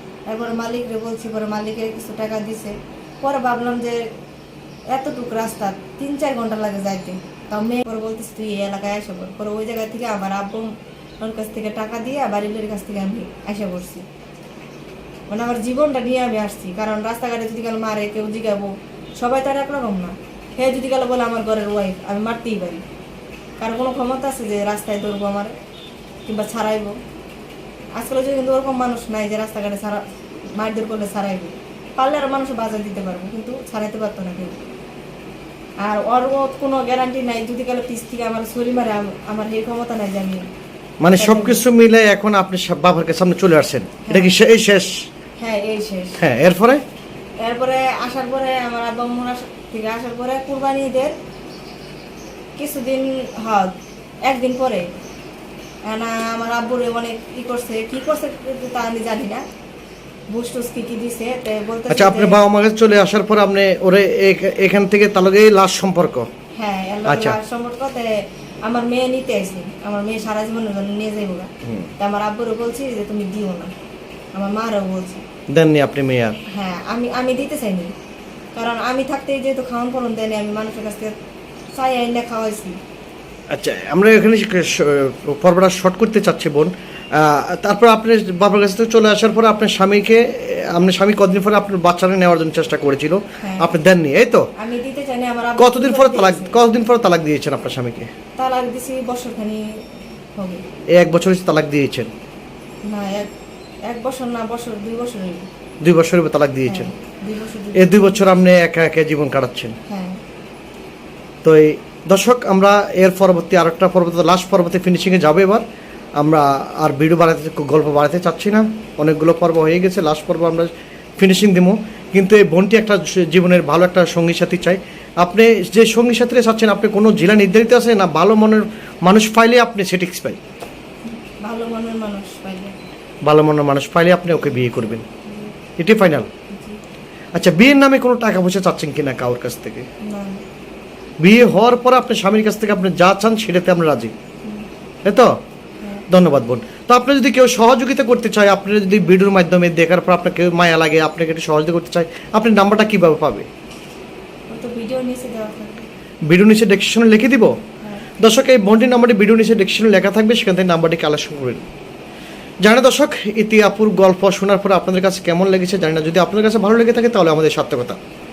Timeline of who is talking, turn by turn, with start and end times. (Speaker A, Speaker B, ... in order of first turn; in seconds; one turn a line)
Speaker A: 0.3-4.0
Speaker A: 4.9-14.0
Speaker A: 15.3-22.8
Speaker A: 23.6-25.5
Speaker A: 26.3-27.0
Speaker A: 28.0-30.0
Speaker A: 30.6-34.6
Speaker A: 35.8-40.4
Speaker B: 41.0-44.9
Speaker A: 41.1-41.6
Speaker A: 44.1-44.3
Speaker A: 45.4-46.2
Speaker B: 46.2-46.8
Speaker A: 47.4-51.1
Speaker A: 52.6-53.7
Speaker A: 54.2-54.8
Speaker A: 55.9-59.4
Speaker A: 60.3-62.4
Speaker B: 61.9-66.3
Speaker A: 66.5-73.7
Speaker B: 67.1-67.4
Speaker A: 74.3-75.2
Speaker B: 75.5-76.4
Speaker A: 76.5-77.9
Speaker A: 78.5-81.1
Speaker A: 81.7-82.8
Speaker B: 83.5-94.5
Speaker A: 93.4-93.7
Speaker A: 94.5-96.5
Speaker B: 95.6-98.1
Speaker A: 98.4-99.7
Speaker A: 100.3-100.6
Speaker B: 100.9-102.1
Speaker A: 102.9-103.3
Speaker A: 103.8-105.5
Speaker B: 105.8-106.9
Speaker A: 106.7-108.3
Speaker B: 107.8-109.7
Speaker A: 109.9-110.2
Speaker B: 111.4-115.6
Speaker B: 116.2-130.4
Speaker A: 131.4-132.7
Speaker B: 133.2-135.0
Speaker A: 135.3-135.5
Speaker B: 135.8-136.3
Speaker A: 136.5-136.8
Speaker B: 137.3-139.8
Speaker A: 140.1-140.4
Speaker B: 141.2-144.1
Speaker B: 145.0-145.3
Speaker A: 145.8-146.1
Speaker B: 146.1-153.5
Speaker A: 154.5-155.8
Speaker B: 156.3-157.6
Speaker A: 157.8-158.1
Speaker B: 158.2-161.7
Speaker B: 162.6-168.0